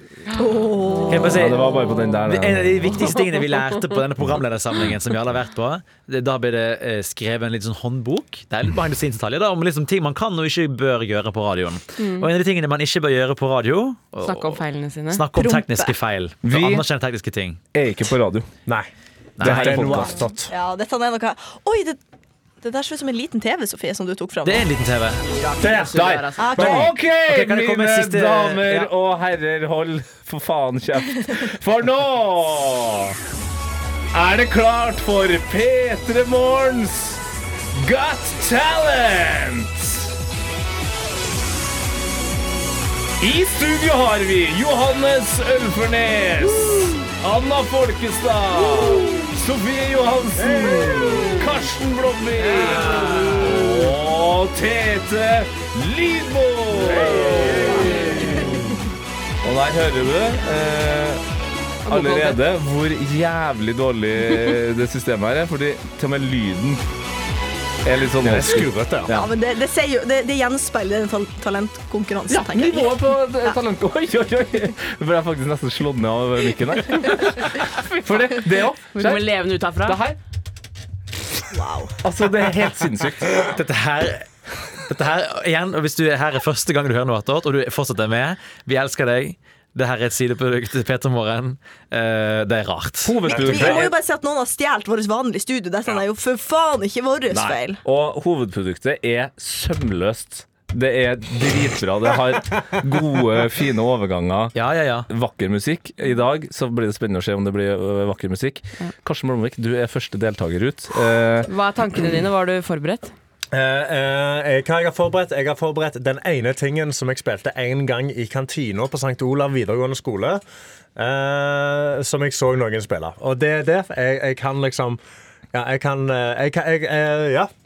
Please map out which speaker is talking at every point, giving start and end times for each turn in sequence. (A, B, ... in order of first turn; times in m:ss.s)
0:00.3-0:01.5 A
0:01.1-0:01.6 B
0:01.1-0:03.0 C
0:02.2-0:17.6 B
0:12.0-0:12.3 D
0:14.2-0:15.2 D
0:15.3-0:15.9 A
0:16.4-0:16.8 C
0:17.7-0:18.5 C
0:19.4-0:20.1 B
0:19.4-0:20.5 E
0:19.4-0:20.3 C
0:20.5-0:22.0 A
0:22.6-0:24.7 A
0:24.4-0:25.2 B
0:25.2-0:26.6 D
0:25.6-0:25.9 E
0:25.9-0:33.2 C
0:26.4-0:26.9 A
0:26.6-0:28.9 B
0:34.1-0:40.1 C
0:43.2-0:58.7 C
0:50.4-0:51.4 E
0:52.5-0:53.7 E
0:56.7-0:58.5 E
0:59.4-1:01.2 C
1:01.8-1:02.4 D
1:01.9-1:06.8 C
1:07.8-1:09.3 C
1:08.2-1:09.1 E
1:09.1-1:13.0 A
1:12.3-1:20.2 C
1:18.9-1:20.0 D
1:21.5-1:22.0 A
1:22.0-1:23.3 C
1:23.5-1:24.3 B
1:24.8-1:33.6 B
1:33.0-1:33.9 C
1:33.3-1:33.8 E
1:33.3-1:37.8 A
1:37.3-1:44.5 C
1:44.5-1:45.1 B
1:45.1-1:51.5 C
1:51.5-1:53.1 D
1:53.5-2:00.4 E
2:01.0-2:05.0 E
2:05.5-2:07.5 E